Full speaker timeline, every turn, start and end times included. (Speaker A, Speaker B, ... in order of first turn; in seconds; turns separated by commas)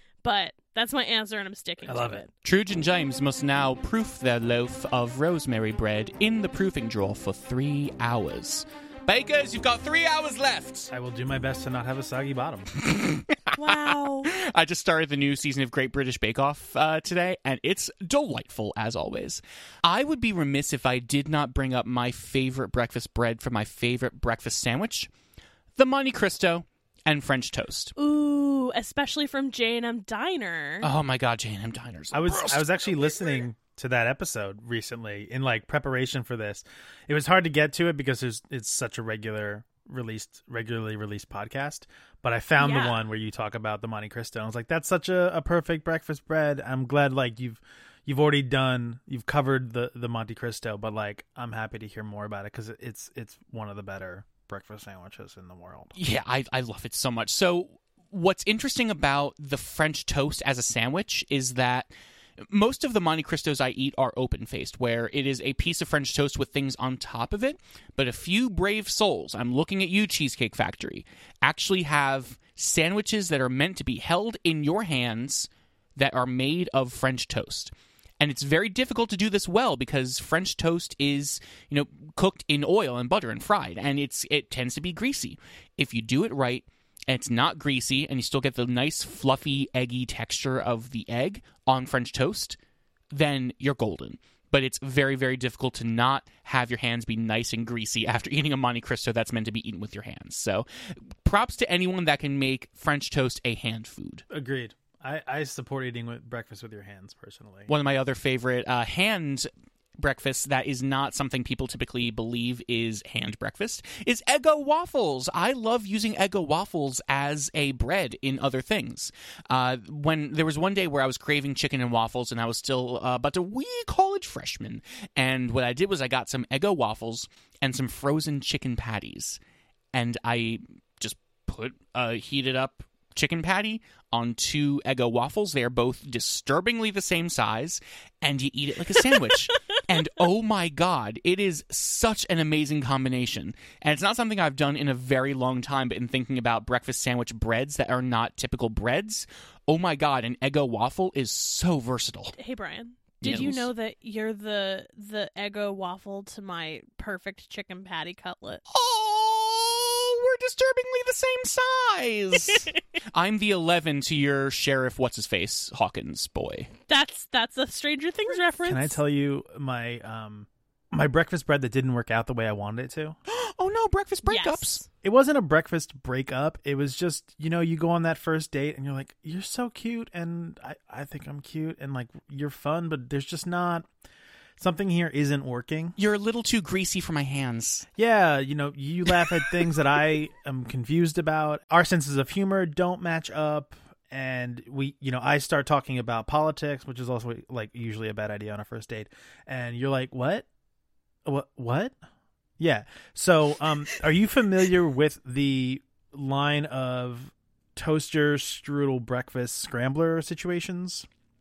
Speaker A: 0.2-2.3, Speaker B: 1.9-2.2, Speaker C: 2.4-10.9, Speaker B: 10.9-12.7, Speaker C: 12.8-25.1, Speaker A: 13.6-14.3, Speaker C: 25.8-27.9, Speaker A: 28.0-30.9, Speaker C: 30.8-33.4, Speaker B: 32.1-55.9, Speaker A: 42.6-43.0, Speaker C: 56.0-92.6, Speaker C: 93.1-104.2, Speaker B: 104.3-107.7, Speaker C: 107.7-129.4, Speaker C: 129.9-152.3, Speaker A: 152.4-158.6, Speaker C: 153.2-153.7, Speaker C: 158.7-166.7, Speaker A: 166.9-169.0, Speaker B: 168.6-173.2, Speaker C: 173.3-174.8, Speaker A: 174.2-174.9, Speaker B: 175.0-183.9, Speaker B: 184.6-185.9, Speaker C: 186.0-187.9, Speaker B: 187.9-200.5, Speaker B: 201.2-202.0, Speaker B: 202.6-211.1